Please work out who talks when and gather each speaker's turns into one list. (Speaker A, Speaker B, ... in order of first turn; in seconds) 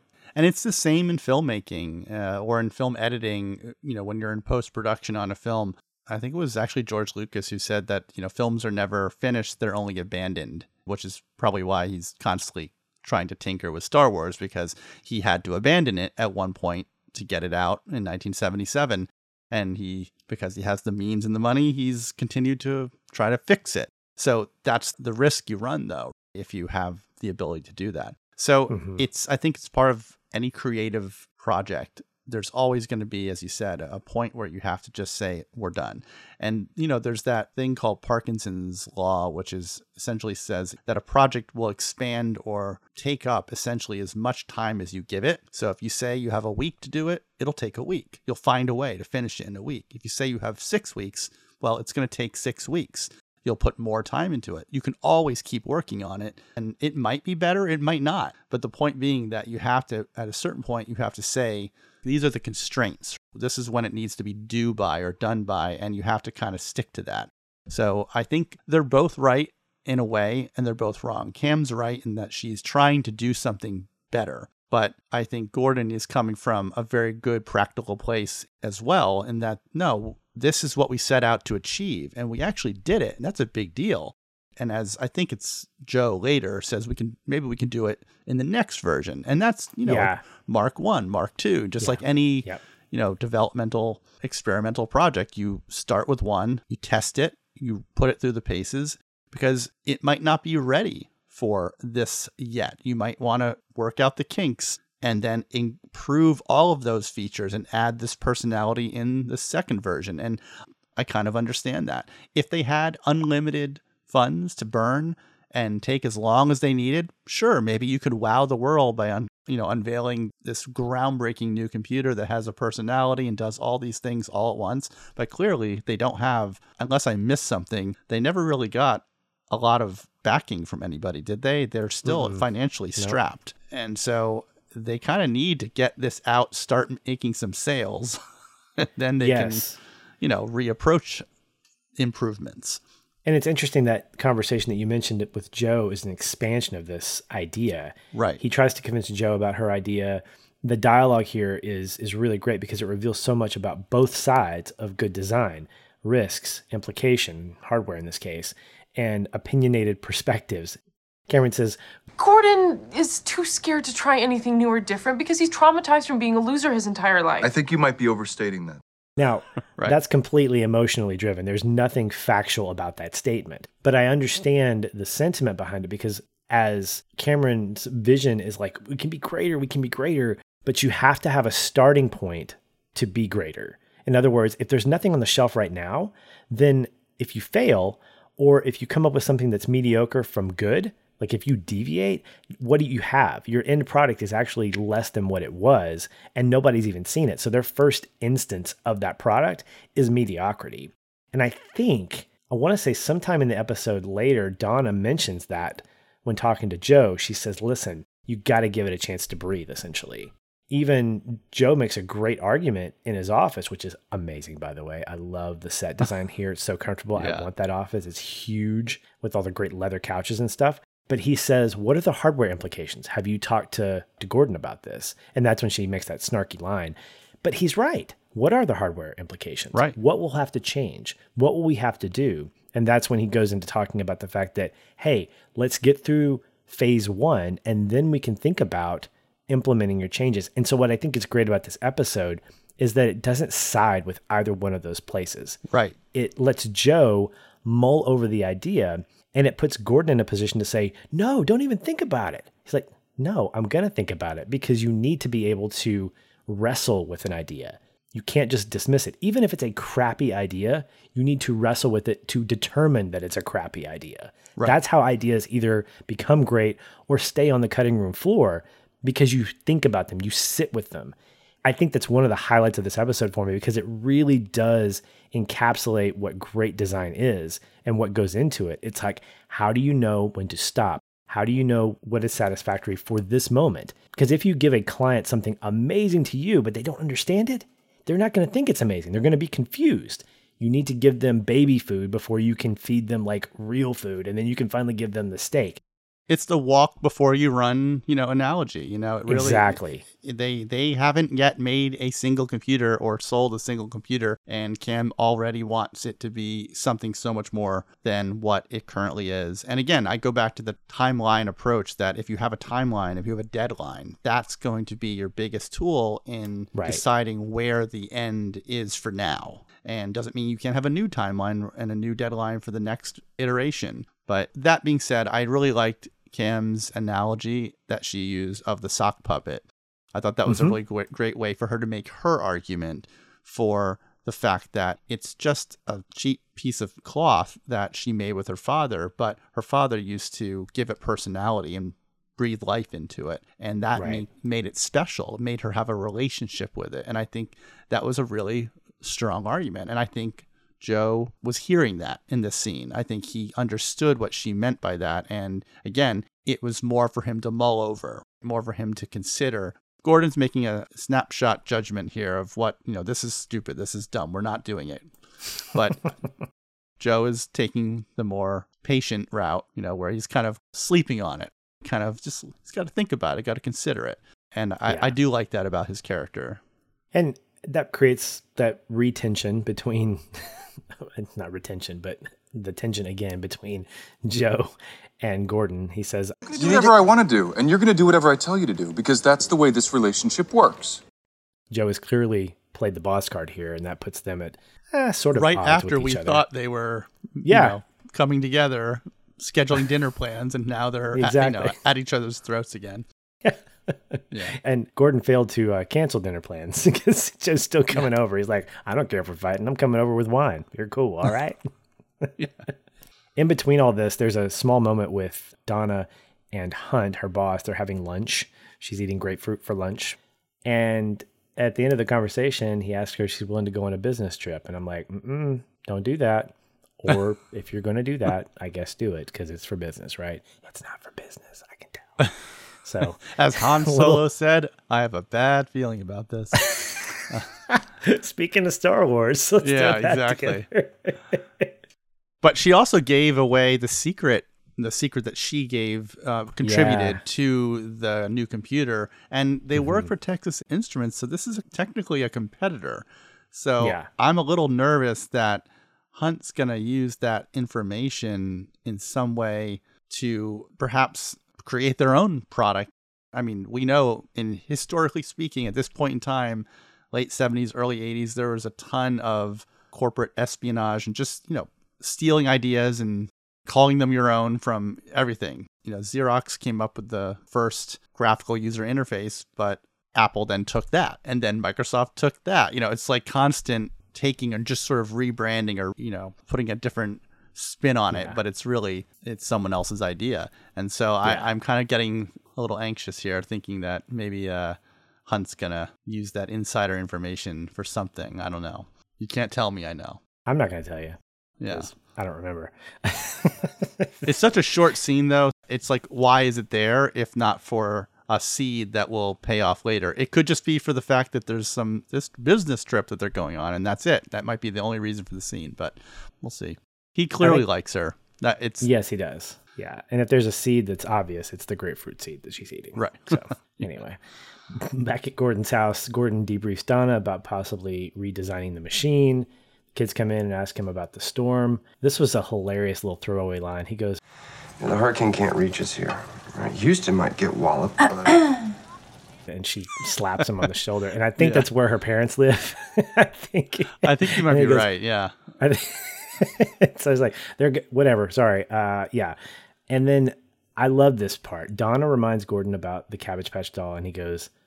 Speaker A: 0.3-110.4, 111.0-138.2, 138.8-139.6, 140.2-141.2, 142.0-142.8, 148.1-148.4, 217.2-217.5, 245.7-245.9, 296.3-365.1, 365.6-366.1, 367.0-376.6, 386.5-386.9, 395.3-403.1, 433.3-436.7, 439.6-440.6, 442.4-500.2, 501.6-501.9, 504.2-518.9, 523.0-523.4, 541.4-541.7, 544.0-545.3
Speaker B: 28.7-29.0, 89.8-90.2, 91.8-92.6, 132.0-133.2, 139.2-139.8, 143.2-161.8, 169.2-245.6, 246.1-295.8, 299.3-300.0, 316.7-317.0, 330.5-330.8, 343.9-344.2, 374.9-375.1, 377.1-386.9, 391.7-396.4, 397.4-397.8, 401.1-401.8, 403.4-411.6, 413.4-432.2, 432.8-434.2, 436.5-441.7, 446.6-447.2, 449.8-450.1, 453.8-454.1, 500.5-504.1, 517.4-517.6, 518.8-524.2, 524.7-534.2, 539.5-544.9, 545.6-549.4, 549.9-554.5
Speaker C: 162.2-167.5
Speaker D: 167.4-168.8, 386.5-391.0
Speaker E: 534.8-538.5